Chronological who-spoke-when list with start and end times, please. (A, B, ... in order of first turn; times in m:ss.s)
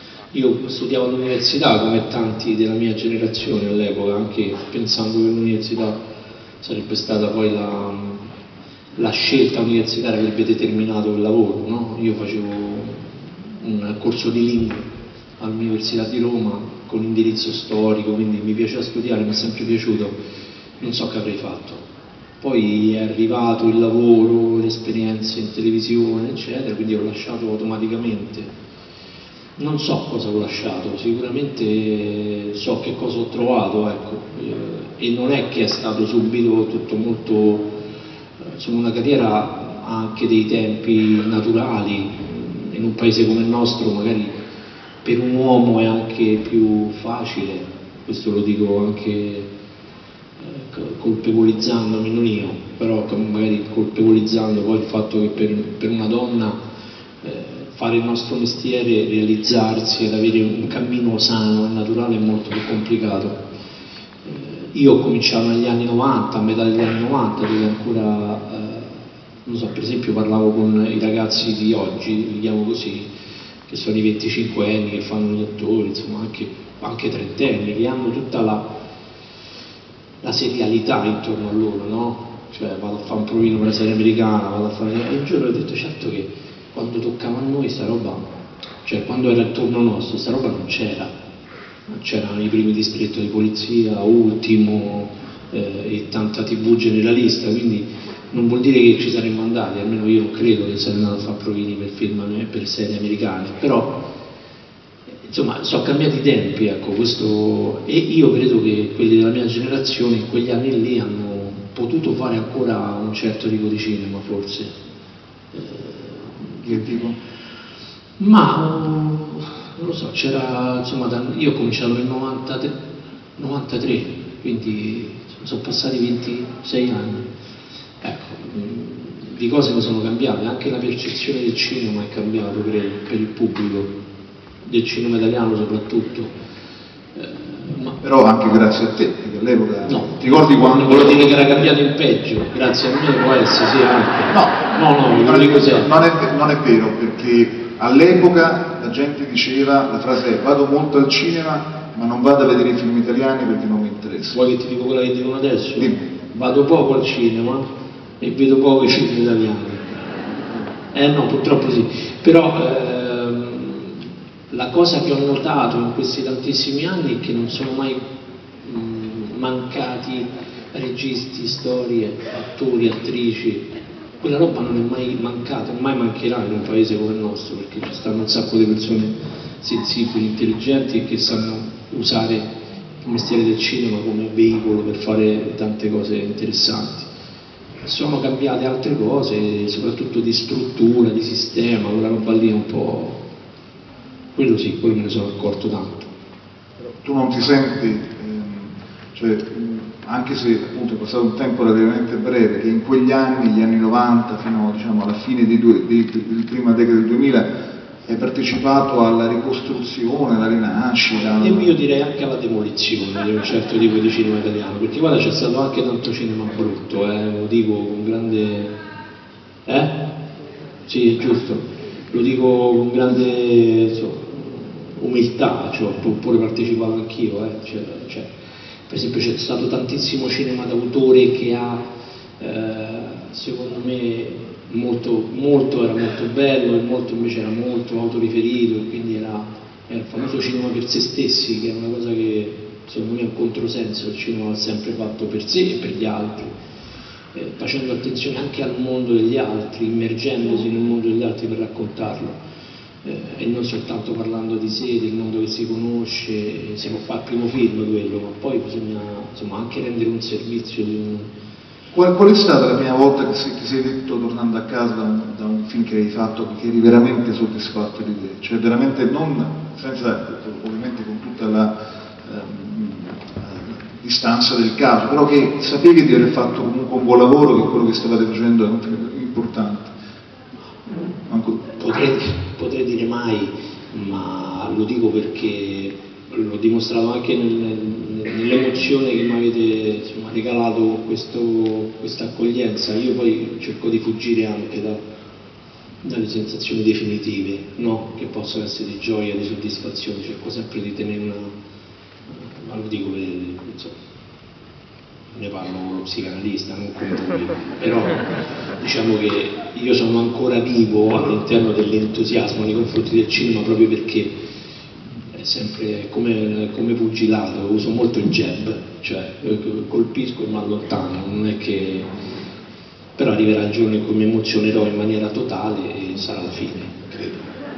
0:00.3-0:06.0 A
0:06.6-0:08.2 A
0:09.0-0:20.2 A
0:20.8-0:21.8 A
0:22.4-0:28.5 A
0:29.6-0:37.7 A
0:38.4-0:44.3 A
0:45.0-0:49.5 A
0:50.4-0:56.6 A
0:57.2-1:03.4 A
1:04.2-1:13.1 A
1:13.6-1:18.7 A
1:20.2-1:28.3 A
1:28.8-1:31.1 A
1:31.9-1:44.0 A
1:45.2-1:54.8 A
1:55.5-1:56.9 A
1:56.6-1:57.2 B
1:58.2-2:02.8 A
2:03.4-2:07.3 A
2:08.0-2:13.9 A
2:14.6-2:16.3 A
2:17.1-2:18.0 A
2:18.0-2:21.5 B
2:19.9-2:26.1 A
2:24.3-2:34.4 B
2:34.3-2:37.6 A
2:35.8-2:36.0 B
2:38.2-2:40.1 A
2:40.9-2:48.0 A
2:48.6-2:53.6 A
2:54.2-3:02.5 A
3:03.0-3:07.1 A
3:07.8-3:13.2 A
3:14.3-3:16.1 A
3:17.0-3:27.5 B
3:28.0-3:31.7 B
3:31.1-3:38.7 A
3:39.6-3:40.0 A
3:40.8-3:48.3 A
3:48.9-3:51.8 A
3:52.4-4:06.5 A
4:07.3-4:12.4 A
4:13.0-4:21.3 A
4:21.9-4:31.7 B
4:32.2-4:39.9 B
4:41.3-4:41.6 B
4:41.7-4:55.0 A
4:56.0-5:01.5 A
5:02.3-5:04.0 A
5:05.3-5:08.2 A
5:08.8-5:14.4 A
5:15.3-5:22.1 A
5:23.2-5:27.5 A